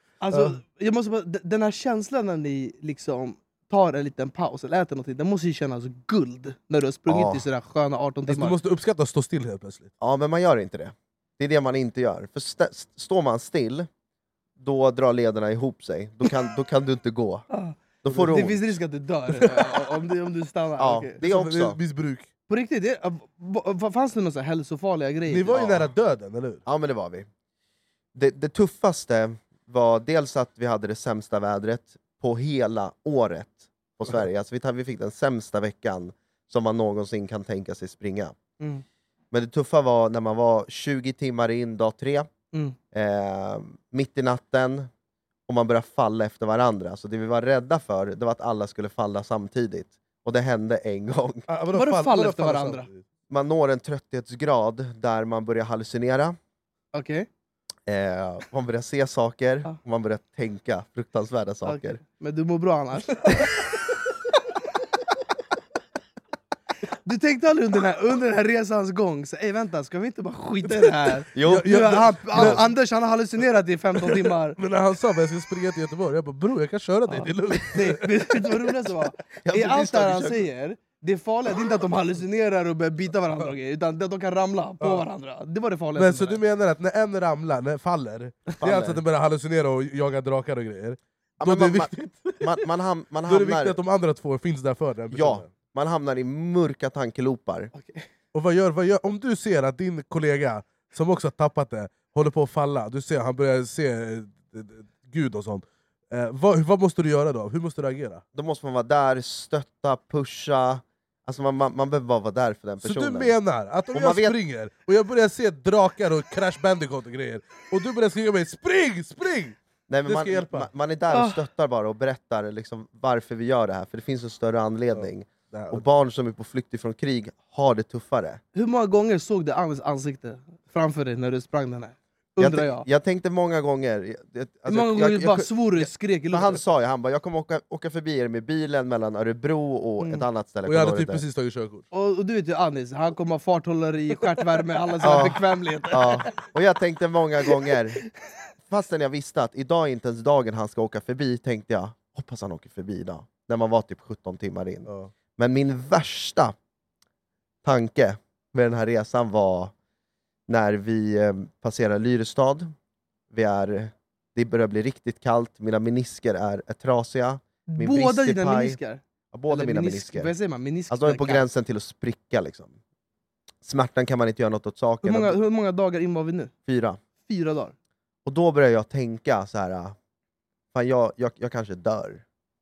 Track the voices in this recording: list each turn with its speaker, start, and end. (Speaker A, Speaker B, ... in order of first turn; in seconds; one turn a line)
Speaker A: 0.2-8.6
Speaker B: 7.1-7.4
Speaker C: 8.3-9.9
Speaker B: 10.0-13.9
Speaker B: 14.6-17.5
Speaker A: 17.5-21.2
Speaker B: 18.0-18.6
Speaker B: 20.8-21.8
Speaker C: 21.2-22.3
Speaker A: 22.5-25.8
Speaker C: 25.3-26.6
Speaker B: 25.6-25.8
Speaker B: 26.7-27.3
Speaker B: 28.1-38.4
Speaker B: 39.3-42.3
Speaker B: 42.9-44.9
Speaker B: 45.5-51.5
Speaker C: 51.5-53.0
Speaker A: 51.7-52.9
Speaker B: 53.3-56.4
Speaker A: 56.9-57.3
Speaker B: 57.9-62.0
Speaker A: 61.6-63.3
Speaker A: 67.1-74.6
Speaker B: 71.3-72.6
Speaker C: 71.5-72.7
Speaker C: 74.6-78.1
Speaker A: 77.1-86.4
Speaker B: 79.4-80.5
Speaker C: 86.0-92.4
Speaker B: 88.6-89.0
Speaker B: 91.4-93.8
Speaker C: 93.3-95.5
Speaker B: 95.1-97.7
Speaker A: 97.7-98.1
Speaker C: 98.3-108.2
Speaker B: 108.3-113.3
Speaker C: 112.8-120.7
Speaker B: 113.9-114.4
Speaker B: 119.9-128.4
Speaker A: 121.1-121.4
Speaker C: 125.0-125.8
Speaker A: 128.6-132.9
Speaker B: 132.4-141.2
Speaker A: 134.7-136.6
Speaker A: 140.0-140.2
Speaker C: 140.7-141.8
Speaker A: 141.9-146.3
Speaker B: 145.0-148.0
Speaker B: 148.7-156.5
Speaker B: 157.6-159.7
Speaker B: 160.5-162.7
Speaker B: 163.3-168.8
Speaker A: 167.7-171.4
Speaker B: 169.3-170.3
Speaker B: 170.9-172.7
Speaker B: 173.6-175.4
Speaker A: 175.0-176.5
Speaker B: 176.7-177.0
Speaker A: 177.3-177.7
Speaker B: 178.2-180.0
Speaker B: 180.7-182.2